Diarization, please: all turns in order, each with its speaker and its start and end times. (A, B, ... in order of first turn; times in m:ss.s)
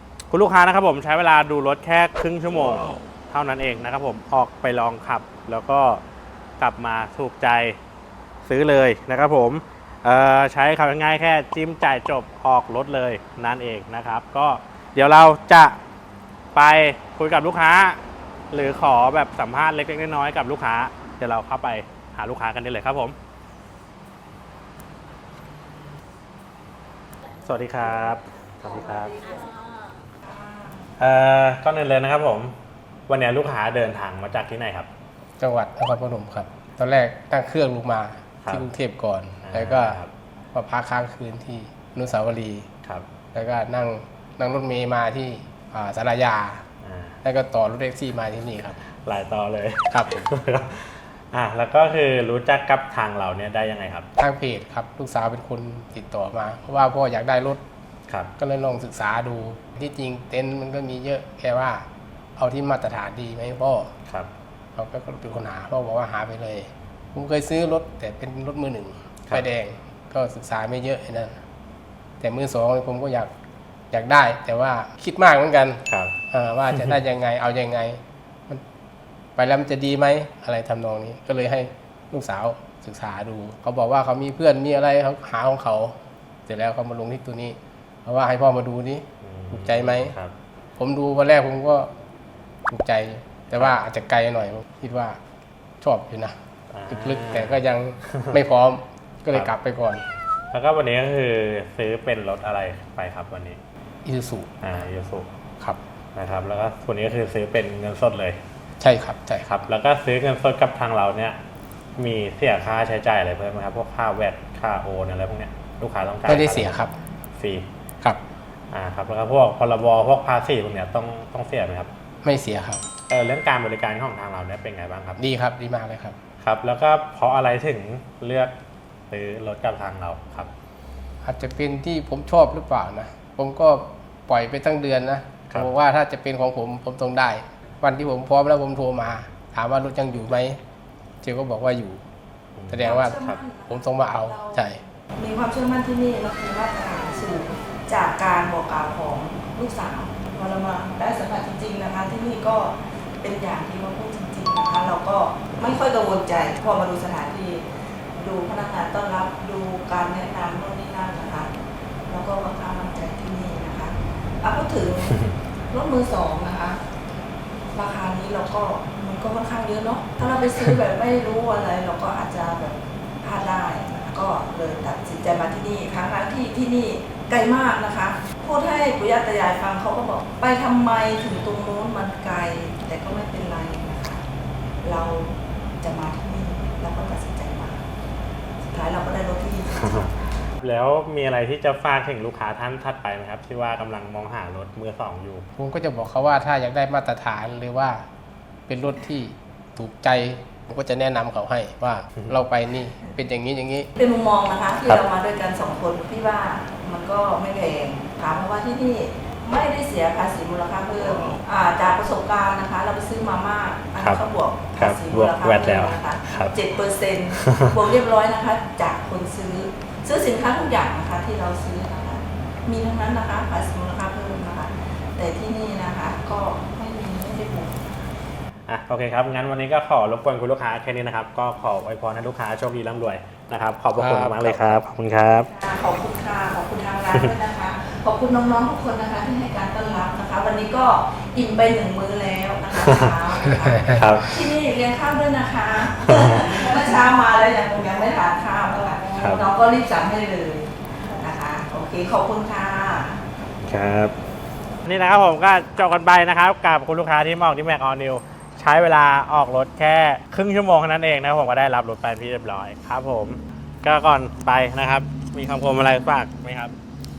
0:00.3-0:06.0 A
0:06.6-0:07.8 A
0:08.4-0:15.8 A
0:16.5-0:18.0 A
0:18.5-0:23.2 A
0:27.4-0:29.2 A
0:31.0-0:32.5 A
0:33.1-0:34.9 A
0:35.4-0:40.0 B
0:39.4-0:40.1 A
0:40.5-0:42.7 B
0:43.3-0:46.6 B
0:46.8-0:47.2 A
0:47.2-0:48.8 B
0:48.8-0:54.1 A
0:49.9-0:50.2 B
0:54.2-0:57.6 B
0:58.4-1:01.8 B
1:02.4-1:03.9 B
1:04.8-1:11.4 B
1:12.2-1:13.3 B
1:13.9-1:18.6 B
1:15.9-1:16.1 A
1:19.4-1:25.9 B
1:26.5-1:30.2 B
1:29.2-1:30.3 A
1:30.8-1:31.9 B
1:32.7-1:35.2 B
1:35.8-1:36.3 B
1:36.7-1:38.4 A
1:36.9-1:40.0 B
1:40.5-1:43.6 A
1:44.0-1:44.6 B
1:44.6-1:45.3 A
1:46.1-1:48.4 A
1:48.8-1:49.5 B
1:49.4-1:51.4 A
1:52.0-1:56.8 A
1:56.2-1:57.0 B
1:57.4-1:57.7 A
1:58.7-2:01.9 A
2:02.2-2:02.8 B
2:03.1-2:05.2 A
2:05.2-2:06.2 B
2:06.4-2:08.5 A
2:09.1-2:10.5 A
2:11.2-2:20.6 B
2:21.2-2:22.0 B
2:22.6-2:23.4 A
2:22.7-2:24.8 B
2:22.8-2:37.6 C
2:38.2-2:41.5 C
2:42.1-2:45.2 C
2:45.7-2:46.8 C
2:47.7-3:04.2 C
3:04.8-3:07.8 C
3:08.6-3:10.1 C
3:09.8-3:15.5 A
3:15.6-3:18.0 B
3:18.7-3:23.9 B
3:24.0-3:47.8 C
3:34.8-3:36.5 A
3:37.4-3:37.7 A
3:48.7-3:55.5 A
3:53.9-3:54.8 B
3:55.4-4:13.2 C
4:03.5-4:03.9 B
4:03.8-4:04.3 A
4:09.2-4:09.4 A
4:13.6-4:14.1 A
4:14.8-4:26.7 A